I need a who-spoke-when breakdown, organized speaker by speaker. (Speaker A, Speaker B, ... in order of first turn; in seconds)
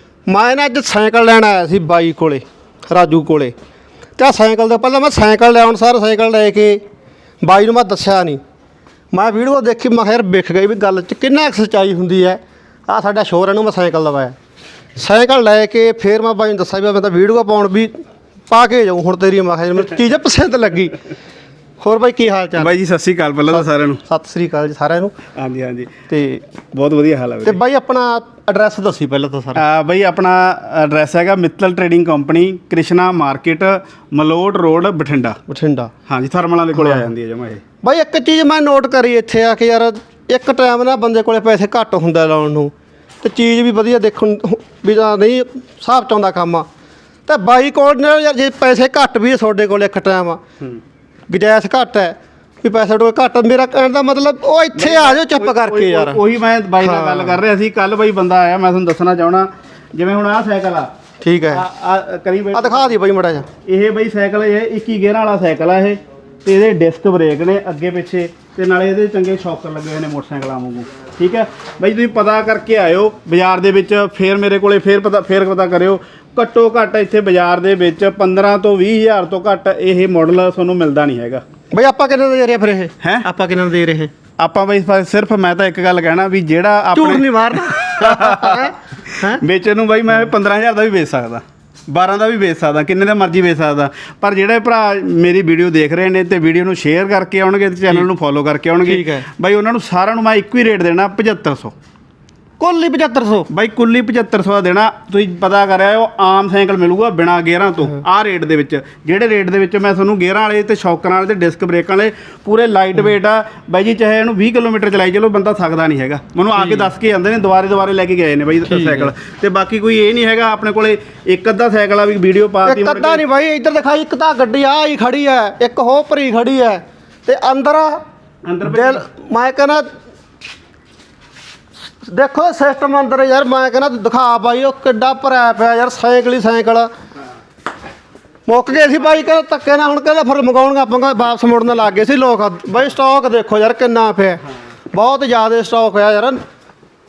Speaker A: 0.3-3.5, 4.2-6.8, 7.4-8.4, 9.1-14.4, 15.0-17.9, 18.5-21.0, 21.8-22.7, 23.5-25.2, 26.1-26.4, 27.4-29.6, 35.5-35.9, 36.8-37.1, 37.8-46.7, 47.3-50.4, 51.3-56.2, 56.8-57.4, 61.2-61.6, 62.5-63.5, 81.7-84.1, 86.9-89.4, 98.8-99.3, 102.6-103.5, 116.6-116.9, 118.7-119.1, 122.7-128.0, 128.6-129.9, 132.0-136.9, 138.5-146.4
Speaker B: 22.6-24.0, 25.4-25.9, 26.7-27.6, 29.6-35.4, 36.1-37.6, 54.8-60.9, 61.5-62.9, 63.6-81.4, 84.4-101.7, 103.5-123.2, 128.4-129.0